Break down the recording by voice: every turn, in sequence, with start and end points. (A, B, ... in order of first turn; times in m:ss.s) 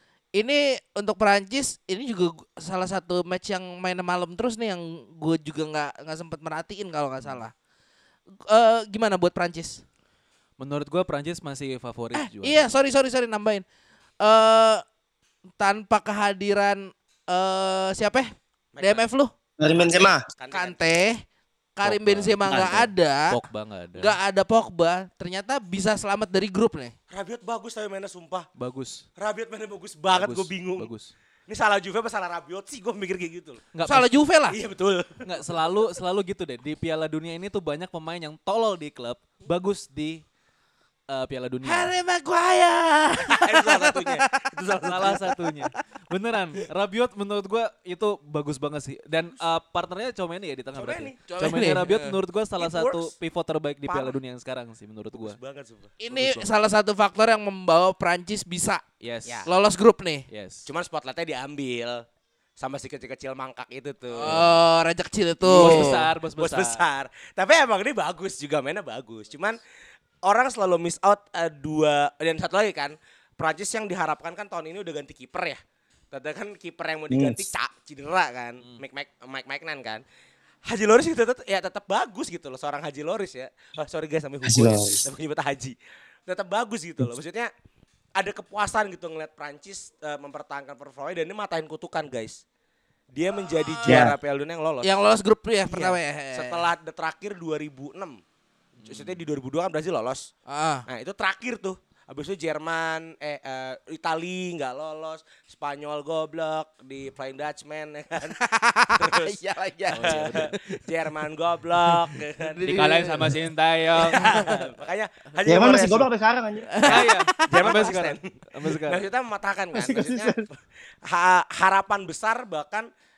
0:00.4-0:07.5 A
0:08.4-0:09.8 A
0:10.6-0:12.7 B
0:12.1-0:13.6 A
0:14.2-0:14.8 A
0:15.6-0:18.3 A
0:18.7-0:19.1 C
0:18.8-0:19.3 A
0:19.6-0:20.2 D
0:19.7-0:21.0 C
0:20.5-0:21.2 A
0:21.8-0:23.3 A
0:21.8-0:24.2 B
0:24.0-0:26.9 A
0:27.1-0:28.5 C
0:28.6-0:29.1 B
0:29.2-0:30.9 C
0:30.1-0:31.1 B
0:31.5-0:33.7 C
0:33.7-0:34.1 B
0:33.9-0:34.6 A
0:34.5-0:35.2 C
0:35.2-0:40.2 B
0:41.1-0:41.9 B
0:41.6-0:45.3 A
0:43.4-0:45.2 C
0:44.8-0:55.4 B
0:50.8-0:51.8 C
0:51.3-0:52.2 A
0:52.6-0:53.1 C
0:53.9-0:54.2 C
0:55.1-0:56.0 C
0:56.0-0:58.8 A
0:56.1-0:56.4 B
0:59.0-0:59.5 B
0:59.5-1:00.2 A
1:00.3-1:00.7 B
1:00.7-1:02.0 C
1:02.6-1:04.4 C
1:04.1-1:06.0 A
1:05.5-1:09.6 C
1:05.5-1:06.8 B
1:10.2-1:15.6 C
1:16.1-1:20.0 C
1:17.1-1:17.4 D
1:20.7-1:25.8 C
1:24.4-1:25.1 D
1:26.3-1:27.5 C
1:28.2-1:32.4 C
1:33.1-1:34.9 C
1:33.4-1:34.2 A
1:33.8-1:34.2 D
1:34.8-1:36.7 A
1:35.7-1:38.2 C
1:38.8-1:39.2 B
1:38.8-1:40.3 C
1:40.5-1:40.9 A
1:40.9-1:48.4 C
1:48.4-1:50.8 A
1:49.0-1:52.6 C
1:49.9-1:50.5 B
1:52.0-1:53.4 A
1:52.7-1:54.6 B
1:54.1-1:56.1 C
1:54.2-1:54.5 A
1:55.5-1:57.0 D
1:56.8-1:57.8 A
1:56.8-1:59.0 B
1:57.4-1:58.3 C
1:58.8-2:02.9 C
1:59.8-2:00.4 D